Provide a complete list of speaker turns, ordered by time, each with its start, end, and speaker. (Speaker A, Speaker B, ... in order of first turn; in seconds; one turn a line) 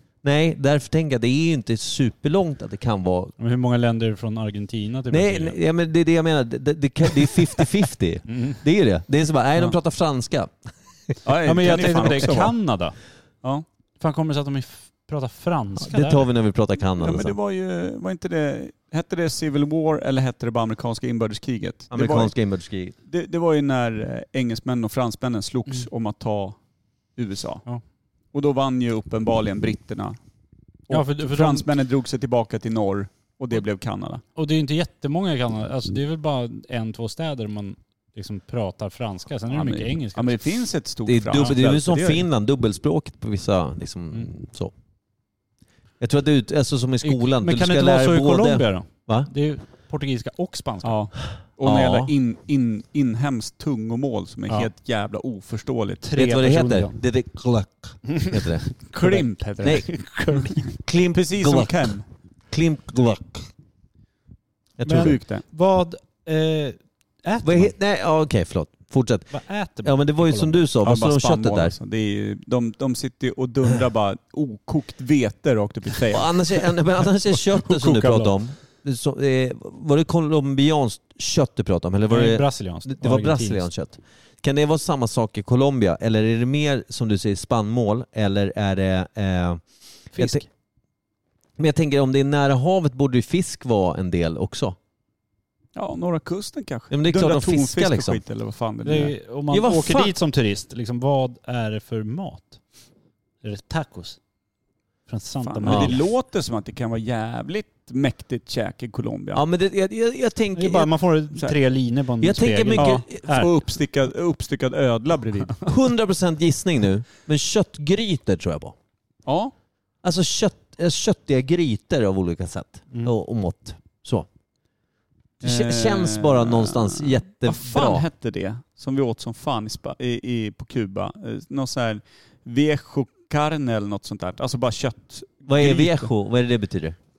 Speaker A: 0.2-3.4
Speaker B: 3.4-5.6
Speaker A: 5.1-10.5
Speaker B: 8.3-8.6
Speaker C: 11.2-12.6
Speaker B: 11.4-13.0
Speaker B: 14.0-16.3
Speaker A: 15.8-17.4
Speaker C: 17.0-22.3
Speaker A: 21.9-22.9
Speaker C: 23.1-26.6
Speaker C: 27.2-27.6
Speaker C: 28.3-30.2
Speaker C: 30.9-34.2
Speaker B: 30.9-31.7
Speaker B: 34.4-40.4
Speaker C: 39.5-42.2
Speaker A: 41.1-44.7
Speaker A: 46.0-49.3
Speaker B: 47.0-51.1
Speaker C: 50.8-56.1
Speaker A: 51.6-52.1
Speaker B: 56.0-57.0
Speaker A: 56.2-58.7
Speaker B: 58.1-60.6
Speaker C: 58.9-59.9
Speaker A: 59.6-62.0
Speaker C: 61.1-62.0
Speaker A: 62.5-63.5
Speaker A: 64.8-65.2
Speaker B: 64.8-67.8
Speaker C: 64.9-65.4
Speaker A: 67.4-71.7
Speaker B: 69.3-70.6
Speaker C: 70.8-76.7
Speaker A: 76.1-89.6
Speaker B: 77.8-78.3
Speaker B: 82.1-83.7
Speaker A: 90.1-90.4
Speaker B: 90.2-90.5
Speaker A: 91.6-94.8
Speaker C: 95.8-99.1
Speaker A: 96.9-98.2
Speaker B: 98.8-102.6
Speaker A: 99.5-100.1
Speaker B: 103.4-104.2
Speaker B: 105.1-106.0
Speaker C: 105.4-109.4
Speaker A: 105.7-105.9
Speaker A: 109.3-110.9
Speaker B: 110.6-113.5
Speaker A: 112.2-113.3
Speaker C: 112.7-115.8
Speaker A: 115.7-118.8
Speaker C: 119.2-119.5
Speaker A: 120.0-124.3
Speaker A: 125.4-128.1
Speaker C: 125.4-136.1
Speaker A: 135.5-137.0